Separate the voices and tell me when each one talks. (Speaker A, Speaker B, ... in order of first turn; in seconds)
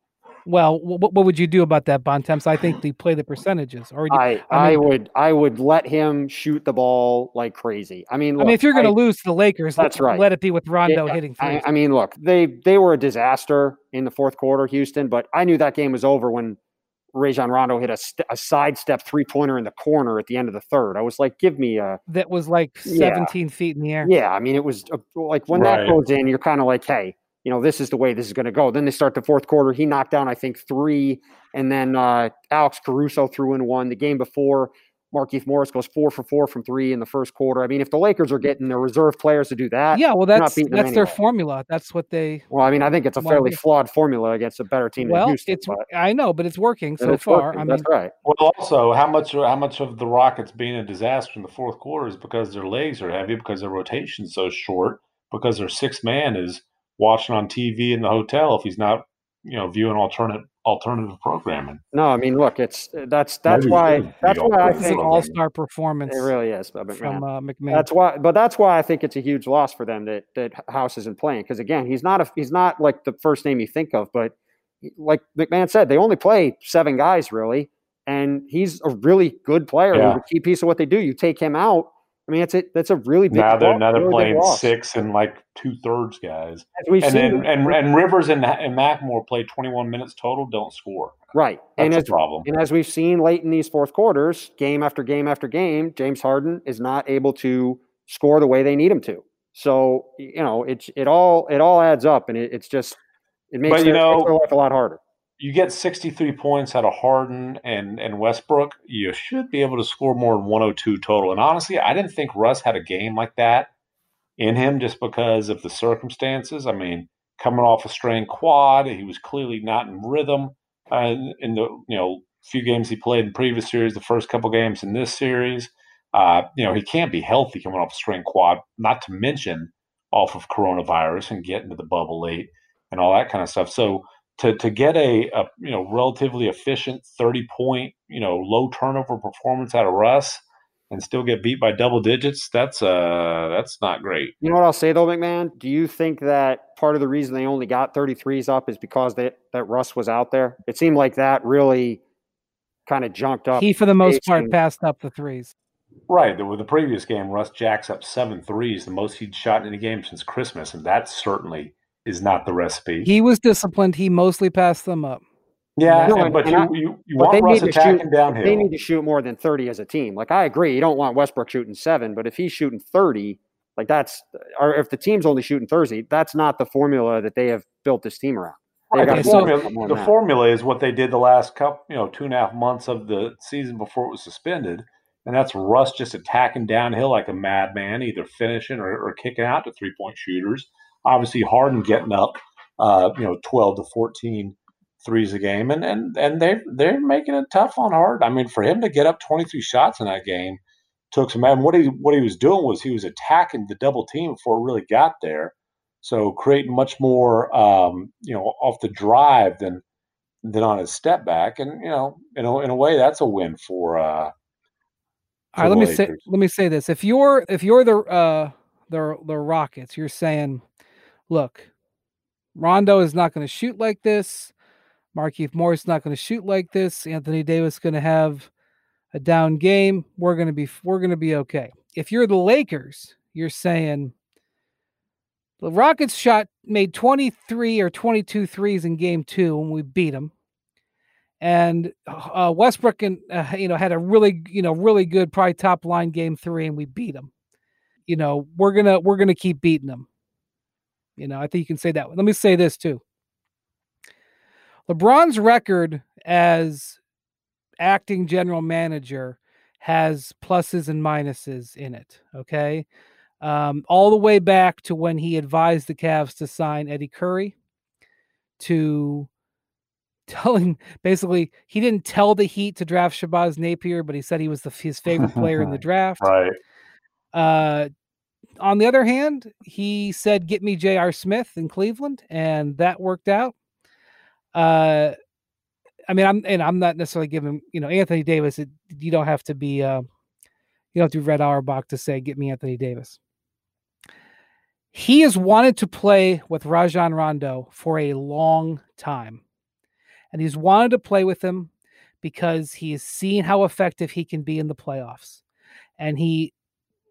Speaker A: 0.5-4.8, 8.4-11.6, 22.1-24.1, 39.9-42.5, 43.2-43.6, 45.0-47.9, 64.7-66.3, 67.0-67.9, 153.6-155.5, 163.0-165.2, 165.8-166.3, 179.0-179.5, 215.5-220.6, 221.3-221.7, 222.6-224.5, 225.1-228.5, 229.1-234.1, 235.6-240.3, 241.4-247.3, 248.1-250.1, 251.2-253.0, 254.9-257.0, 257.8-262.8, 263.4-267.5, 268.6-269.3, 270.3-276.3, 277.3-277.9, 278.6-283.5, 284.5-285.1, 286.1-290.1, 290.9-293.2, 294.9-299.4, 300.3-301.7, 302.2-305.4, 306.0-306.5
Speaker B: 4.1-8.9, 9.8-10.2, 10.9-16.6, 17.1-22.0, 22.9-23.3, 24.0-41.1, 42.5-45.8, 47.0-48.1, 61.9-65.1, 66.1-84.7, 86.8-87.8, 91.3-103.0, 103.5-105.0, 144.4-152.0, 152.9-154.5, 166.0-180.1
Speaker C: 25.5-26.0, 48.2-61.8, 63.5-65.3, 79.9-80.2, 83.3-91.2, 91.8-92.5, 103.7-104.3, 105.4-113.7, 114.4-144.3, 156.1-163.1, 165.8-168.7, 178.9-200.6, 201.1-209.8, 210.4-214.3, 215.6-216.2, 275.2-275.7, 276.2-276.6